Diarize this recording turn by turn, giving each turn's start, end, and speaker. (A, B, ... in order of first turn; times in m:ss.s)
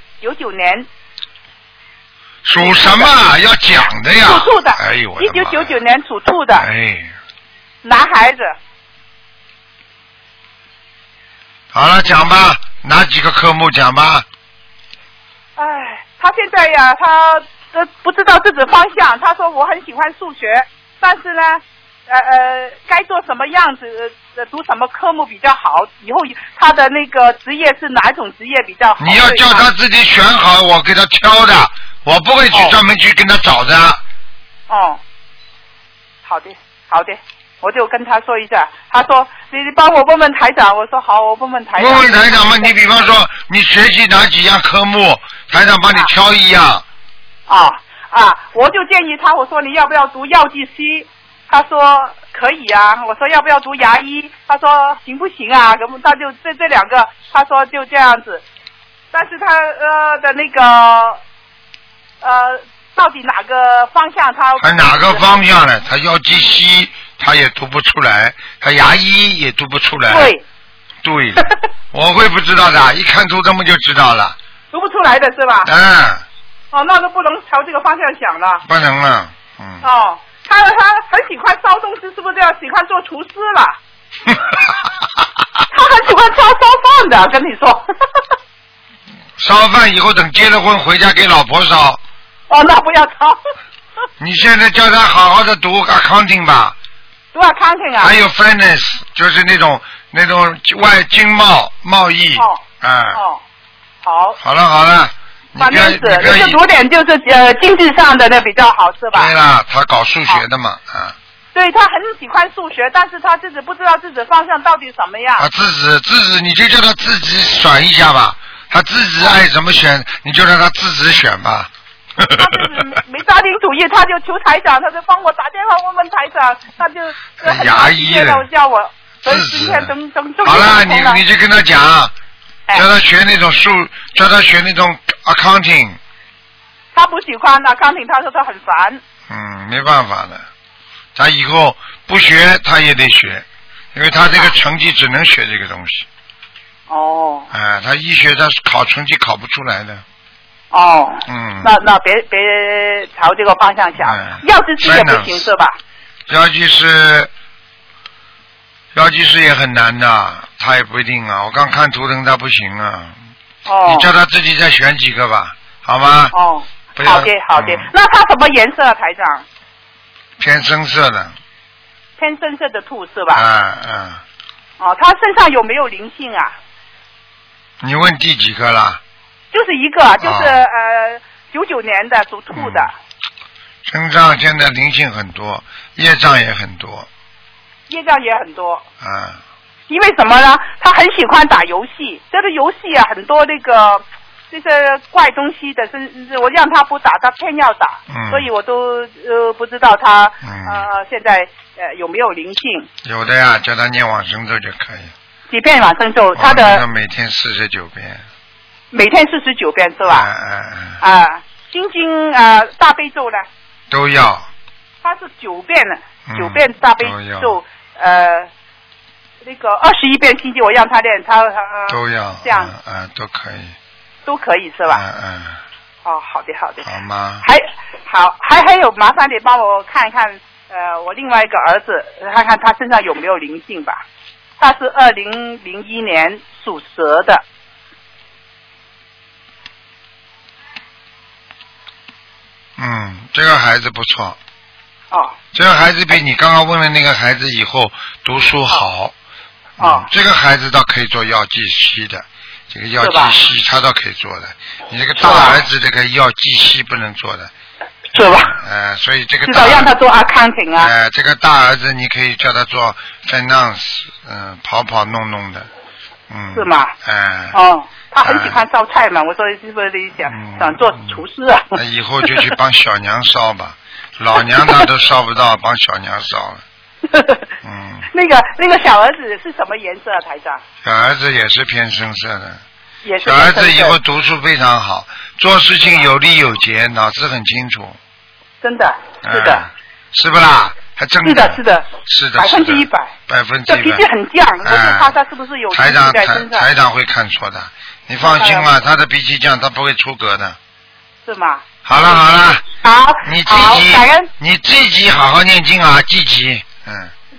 0:00.2-0:00.9 A
0:02.4-0:05.8 B
0:02.5-0:03.1 A
0:04.2-0:06.6 A
0:06.5-0:07.1 B
0:07.8-0:08.6 A
0:11.7-0:14.3 B
0:15.6-0:29.7 A
0:29.0-0:34.0 B
0:34.7-0:35.0 A
0:36.2-0:42.8 A
0:41.8-0:46.8 B
0:47.5-0:58.4 A
0:59.1-1:01.2 A
1:02.2-1:05.4 A
1:04.6-1:10.4 B
1:10.1-1:10.4 A
1:11.0-1:14.4 B
1:14.7-1:15.7 A
1:15.6-1:16.2 B
1:16.7-1:18.6 A
1:18.6-1:19.8 B
1:19.8-1:23.8 A
1:24.3-1:24.6 B
1:25.7-1:28.2 A
1:29.4-1:32.0 B
1:32.5-1:33.4 A
1:34.2-1:36.8 B
1:37.3-1:38.2 A
1:38.0-1:43.2 B
1:42.4-1:42.6 A
1:43.1-1:43.4 A
1:44.0-1:44.4 A
1:44.4-1:46.6 B
1:45.6-1:49.3 A
1:49.1-1:51.1 B
1:51.6-1:55.5 A
1:55.4-2:02.7 B
2:02.4-2:11.2 A
2:07.4-2:08.5 B
2:09.2-2:09.9 B
2:10.4-2:12.1 B
2:12.7-2:16.0 B
2:16.9-2:19.0 A
2:19.3-2:20.4 B
2:21.1-2:26.1 B
2:26.9-2:27.5 A
2:27.5-2:30.0 B
2:30.7-2:35.8 A
2:31.3-2:31.7 B
2:34.0-2:35.4 B
2:36.3-2:37.3 B
2:38.9-2:43.2 B
2:43.6-2:44.1 A
2:43.9-2:46.3 B
2:46.3-2:49.4 A
2:47.0-2:47.9 B
2:50.4-2:51.4 B
2:52.2-2:53.4 A
2:53.3-2:54.2 B
2:54.8-2:56.6 A
2:57.8-2:59.0 B
2:59.5-3:02.9 A
3:00.2-3:00.6 B
3:02.5-3:02.9 B
3:03.8-3:07.1 B
3:07.9-3:08.8 A
3:09.0-3:09.4 B
3:09.9-3:22.9 A
3:18.1-3:18.5 B
3:20.4-3:20.9 B
3:23.0-3:25.1 B
3:25.5-3:26.8 A
3:26.4-3:28.2 B
3:28.9-3:30.3 A
3:30.1-3:31.0 B
3:31.0-3:33.5 A
3:33.9-3:34.5 B
3:35.0-3:38.5 A
3:36.3-3:37.6 B
3:39.4-3:42.7 A
3:41.9-3:43.8 B
3:44.3-3:45.0 A
3:44.9-3:45.6 B
3:46.0-3:46.9 A
3:46.8-3:47.5 B
3:47.4-3:54.0 A
3:54.6-3:57.4 A
4:02.8-4:04.4 B
4:05.5-4:09.1 B
4:09.8-4:17.5 B
4:09.8-4:10.1 A
4:13.0-4:13.4 A
4:15.2-4:15.6 A
4:18.1-4:18.5 A
4:18.2-4:19.9 B
4:19.5-4:20.9 A
4:20.8-4:25.7 B
4:26.3-4:27.6 B
4:26.6-4:26.9 A
4:27.5-4:32.5 A
4:28.2-4:28.6 B
4:30.3-4:31.2 B
4:31.8-4:36.6 B
4:34.6-4:34.8 A
4:37.1-4:37.5 A
4:37.6-4:38.1 B
4:38.1-4:40.6 A
4:40.8-4:42.6 B
4:43.0-4:44.0 A
4:43.3-4:48.0 B
4:48.6-4:49.6 A
4:49.2-4:54.0 B
4:51.2-4:53.1 A
4:53.7-4:56.7 A
4:54.6-4:55.1 B
4:55.7-5:00.6 B
4:58.2-4:58.7 A
5:01.3-5:04.3 A
5:01.9-5:02.6 B
5:03.2-5:07.1 B